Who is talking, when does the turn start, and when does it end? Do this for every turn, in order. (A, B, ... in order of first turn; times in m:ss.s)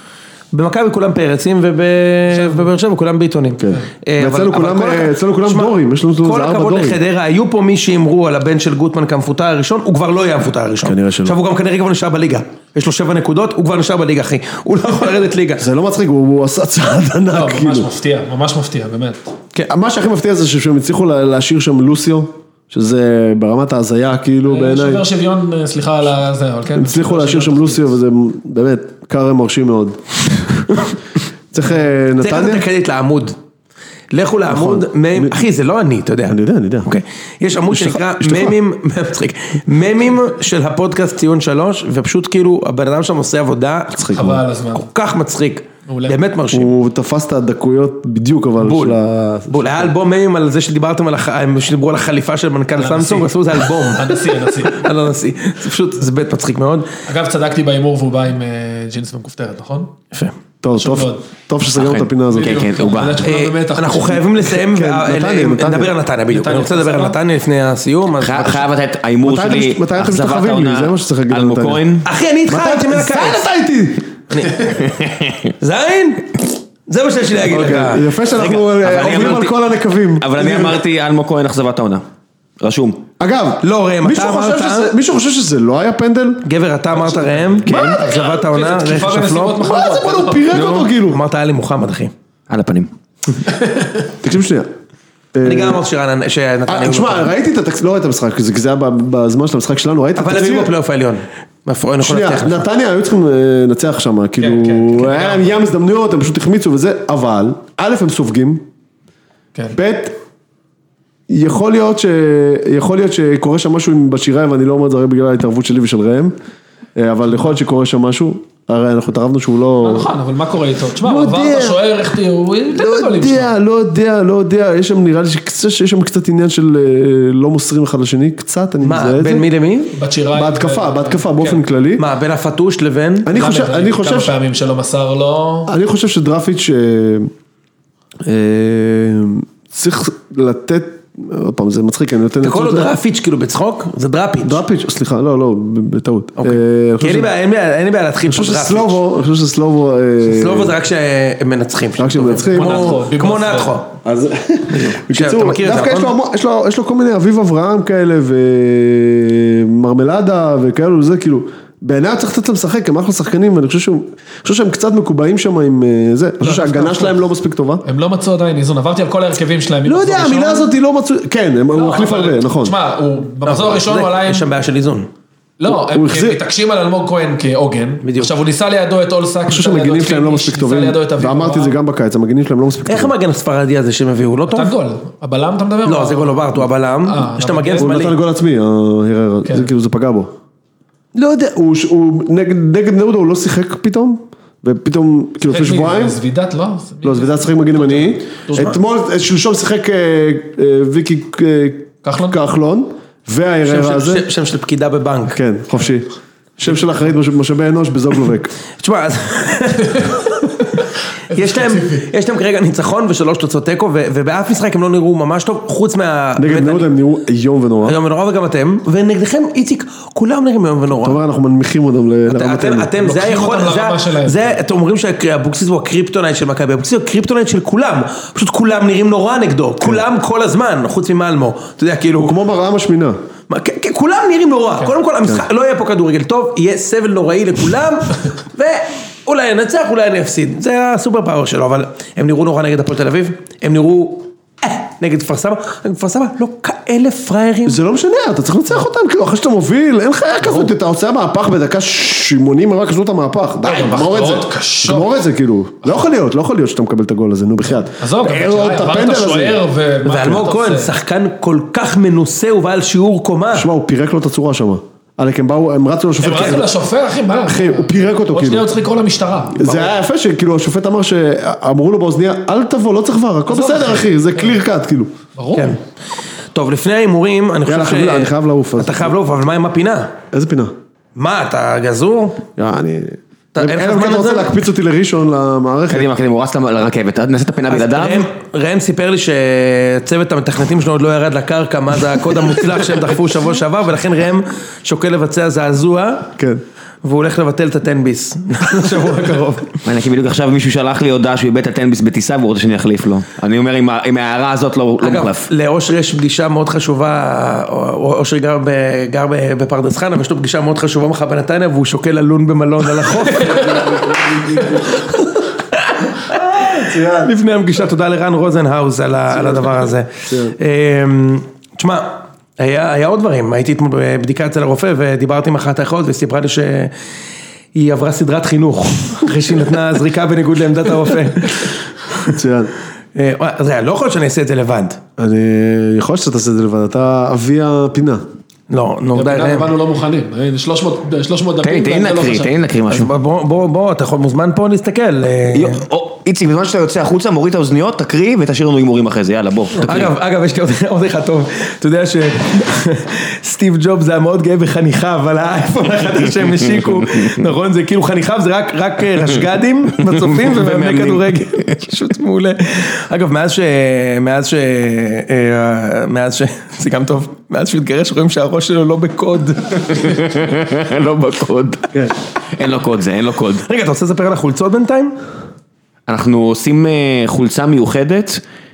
0:00.5-0:15.6 A
0:02.3-0:02.7 B
0:03.6-0:07.0 C
0:10.8-0:11.4 C
0:15.6-0:17.9 C
0:17.3-0:19.3 B
0:19.7-0:25.0 C
0:24.4-0:27.9 B
0:26.7-0:31.0 C
0:31.5-0:32.6 C
0:32.2-0:33.4 A
0:34.1-0:44.1 A
0:34.5-0:35.4 C
0:36.3-0:36.9 C
0:37.7-0:38.6 C
0:43.9-0:44.4 C
0:44.1-0:44.8 B
0:44.7-0:46.7 A
0:45.8-0:46.2 B
0:46.5-0:49.9 C
0:48.6-0:49.0 A
0:49.5-0:56.9 A
0:52.8-0:54.8 B
0:57.1-0:59.9 B
1:00.6-1:02.6 C
1:00.8-1:01.3 B
1:01.7-1:03.2 D
1:02.3-1:04.3 B
1:03.2-1:08.6 A
1:04.4-1:05.9 C
1:06.3-1:07.2 B
1:08.2-1:12.1 D
1:09.2-1:14.5 C
1:12.0-1:13.4 A
1:14.3-1:14.8 A
1:14.8-1:15.5 D
1:15.6-1:18.1 A
1:17.4-1:20.8 C
1:18.3-1:19.6 D
1:18.8-1:19.5 A
1:20.2-1:22.0 D
1:22.6-1:23.0 D
1:23.2-1:27.7 C
1:23.6-1:24.9 A
1:26.4-1:29.6 A
1:27.6-1:28.0 D
1:27.7-1:30.4 B
1:29.6-1:31.2 C
1:30.5-1:32.1 A
1:32.5-1:32.9 D
1:33.5-1:33.9 B
1:34.2-1:34.7 C
1:35.3-1:35.8 C
1:35.4-1:37.3 A
1:36.7-1:40.7 C
1:40.2-1:42.6 A
1:42.0-1:48.6 C
1:44.4-1:45.6 B
1:49.7-1:50.2 C
1:51.3-1:56.3 C
1:56.9-2:00.1 C
1:59.8-2:03.5 B
2:01.0-2:01.8 C
2:02.7-2:09.5 C
2:08.8-2:09.9 A
2:09.9-2:11.6 B
2:10.3-2:12.0 C
2:12.0-2:13.3 A
2:13.2-2:14.3 C
2:13.3-2:15.7 B
2:15.7-2:17.3 C
2:18.2-2:22.9 C
2:22.4-2:24.6 A
2:24.4-2:27.3 C
2:26.4-2:29.0 A
2:28.2-2:30.7 C
2:30.2-2:33.9 A
2:32.0-2:33.0 C
2:32.4-2:33.8 B
2:34.0-2:47.8 C
2:34.7-2:36.1 A
2:46.4-2:47.2 B
2:47.8-2:50.7 B
2:49.8-2:52.8 C
2:51.7-2:54.4 B
2:53.4-2:55.1 A
2:55.6-3:01.8 B
2:55.6-2:56.4 C
2:58.0-2:58.3 A
2:59.4-3:03.1 C
3:02.9-3:04.7 A
3:04.5-3:06.5 B
3:05.8-3:08.2 A
3:07.0-3:07.9 B
3:07.8-3:10.3 C
3:11.1-3:16.2 C
3:15.4-3:18.8 B
3:17.0-3:24.3 C
3:22.0-3:22.4 B
3:23.6-3:25.4 A
3:25.3-3:28.5 C
3:28.8-3:30.6 A
3:31.3-3:32.1 B
3:31.3-3:36.9 A
3:36.4-3:38.0 C
3:37.8-3:41.2 A
3:41.0-3:42.9 C
3:42.3-3:52.4 A
3:43.0-3:44.6 B
3:52.2-3:53.2 C
3:53.5-4:07.8 A
4:07.6-4:19.6 C
4:10.4-4:10.7 A
4:13.6-4:15.2 B
4:18.0-4:20.9 B
4:20.0-4:23.7 A
4:23.5-4:26.7 C
4:26.2-4:29.6 B
4:27.5-4:28.7 C
4:29.5-4:35.1 C
4:29.6-4:29.9 A
4:33.5-4:34.5 B
4:35.4-4:35.8 B
4:35.5-4:35.8 A
4:36.5-4:40.2 A
4:37.6-4:39.2 C
4:40.3-4:40.7 C
4:41.2-4:42.4 A
4:42.6-4:46.1 C
4:43.6-4:44.5 A
4:45.9-4:48.3 D
4:47.7-4:56.3 A
4:56.4-4:56.6 C
4:57.0-4:59.8 A
4:59.8-5:05.5 D
5:05.0-5:26.9 A
5:13.5-5:15.0 C
5:16.6-5:17.3 C
5:19.3-5:20.6 C
5:27.7-5:32.3 A
5:32.3-5:32.7 C
5:33.1-5:35.0 A
5:35.2-5:38.2 C
5:38.7-5:39.7 A
5:39.1-5:42.6 B
5:41.6-5:43.1 D
5:42.9-5:45.8 A
5:45.5-5:50.1 D
5:49.8-6:10.2 A
5:56.8-5:57.3 D
6:00.0-6:01.9 D
6:09.7-6:13.6 D
6:13.6-6:15.2 A
6:16.1-6:18.4 D